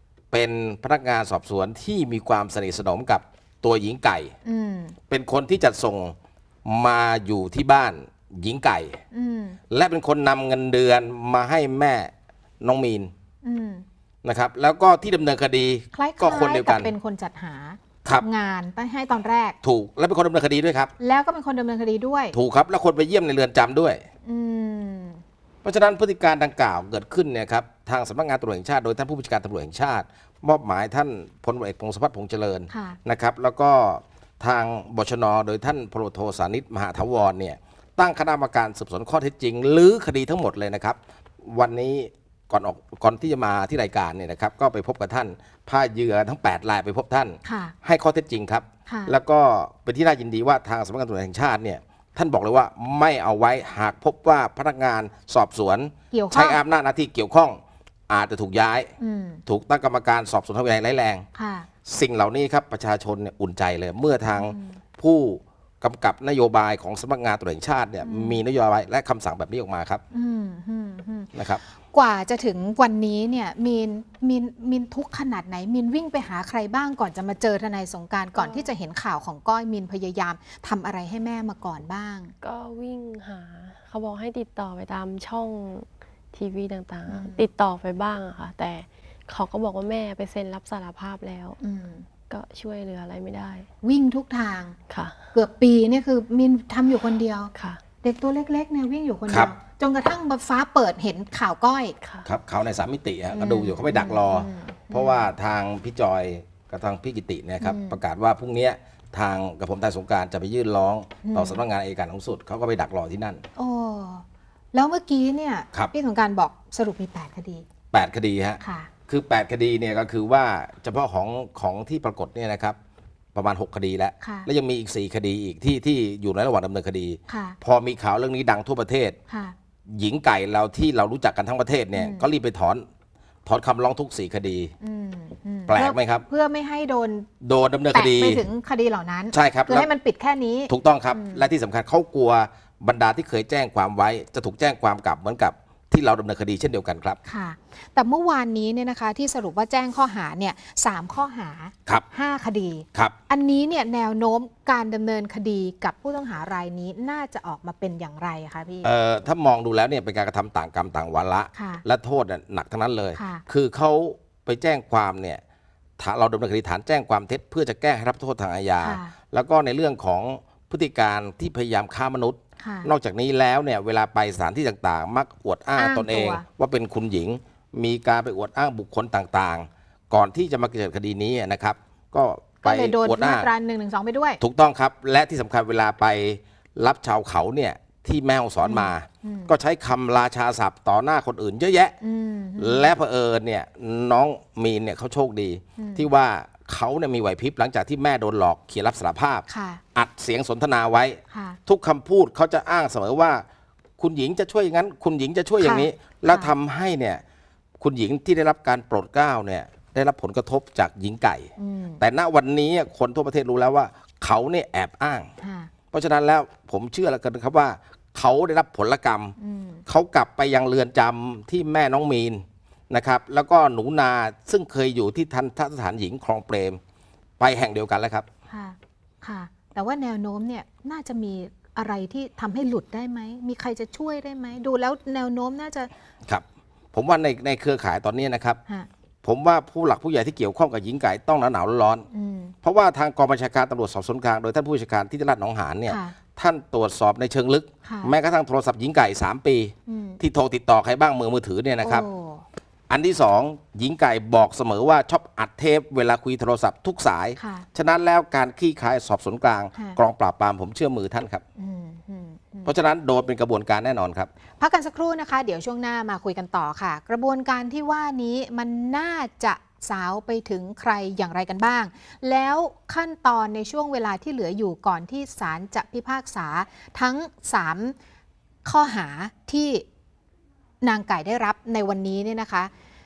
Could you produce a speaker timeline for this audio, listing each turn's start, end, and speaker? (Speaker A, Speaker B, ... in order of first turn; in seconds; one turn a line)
Speaker A: 0.3-4.3
Speaker B: 4.4-5.0
Speaker A: 5.1-9.0
Speaker B: 9.1-9.6
Speaker A: 9.7-13.1
Speaker B: 13.4-13.8
Speaker A: 14.2-16.9
Speaker B: 15.9-19.6
Speaker A: 19.6-20.9
Speaker B: 21.0-22.4
Speaker A: 22.3-24.0
Speaker B: 24.2-25.2
Speaker A: 25.6-58.9
Speaker B: 32.7-33.0
Speaker B: 47.4-47.8
Speaker B: 48.9-49.1
Speaker B: 56.1-56.6
Speaker B: 59.0-59.4
Speaker A: 59.5-61.2
Speaker B: 61.4-61.7
Speaker A: 61.9-70.0
Speaker B: 64.3-64.8
Speaker B: 68.0-68.4
Speaker B: 70.1-71.3
Speaker A: 71.3-71.6
Speaker B: 71.9-82.3
Speaker C: 78.4-78.7
Speaker C: 82.4-91.6
Speaker B: 87.1-87.5
Speaker B: 91.6-92.0
Speaker C: 92.3-93.7
Speaker B: 93.8-94.8
Speaker C: 94.9-95.3
Speaker B: 95.3-97.5
Speaker C: 97.5-97.8
Speaker B: 98.0-102.0
Speaker A: 102.2-113.4
Speaker B: 103.3-105.3
Speaker B: 107.6-108.0
Speaker B: 111.2-111.6
Speaker B: 113.5-117.7
Speaker A: 117.9-122.8
Speaker B: 118.6-118.9
Speaker A: 123.3-129.2
Speaker B: 124.2-124.5
Speaker B: 127.3-127.6
Speaker B: 129.3-129.5
Speaker A: 129.9-132.9
Speaker B: 131.9-132.3
Speaker A: 133.5-134.7
Speaker B: 134.8-137.3
Speaker A: 135.7-136.2
Speaker A: 137.4-138.4
Speaker B: 137.9-141.4
Speaker A: 139.3-139.9
Speaker A: 140.7-147.2
Speaker B: 147.2-158.9
Speaker A: 158.8-165.4
Speaker B: 161.5-161.8
Speaker B: 163.2-163.4
Speaker A: 166.0-183.5
Speaker B: 168.8-169.1
Speaker B: 172.6-172.9
Speaker B: 175.8-176.4
Speaker B: 182.6-184.4
Speaker A: 184.4-192.0
Speaker B: 188.6-189.5
Speaker B: 192.0-192.9
Speaker A: 192.6-203.4
Speaker B: 195.8-196.1
Speaker B: 199.5-199.8
Speaker B: 201.3-201.6
Speaker A: 204.0-207.2
Speaker B: 205.6-206.5
Speaker A: 207.8-215.3
Speaker B: 211.6-212.0
Speaker B: 215.4-215.7
Speaker A: 215.9-219.3
Speaker B: 219.4-219.8
Speaker A: 219.9-226.8
Speaker A: 227.4-228.2
Speaker B: 228.5-235.9
Speaker A: 236.2-238.6
Speaker A: 239.2-242.1
Speaker B: 242.1-242.5
Speaker A: 242.6-252.1
Speaker B: 245.9-246.1
Speaker B: 247.8-248.1
Speaker B: 249.9-250.2
Speaker B: 251.8-252.5
Speaker A: 252.9-261.4
Speaker B: 257.4-257.6
Speaker B: 261.6-262.7
Speaker A: 262.6-264.3
Speaker B: 264.6-277.9
Speaker B: 278.6-279.9
Speaker B: 280.8-282.7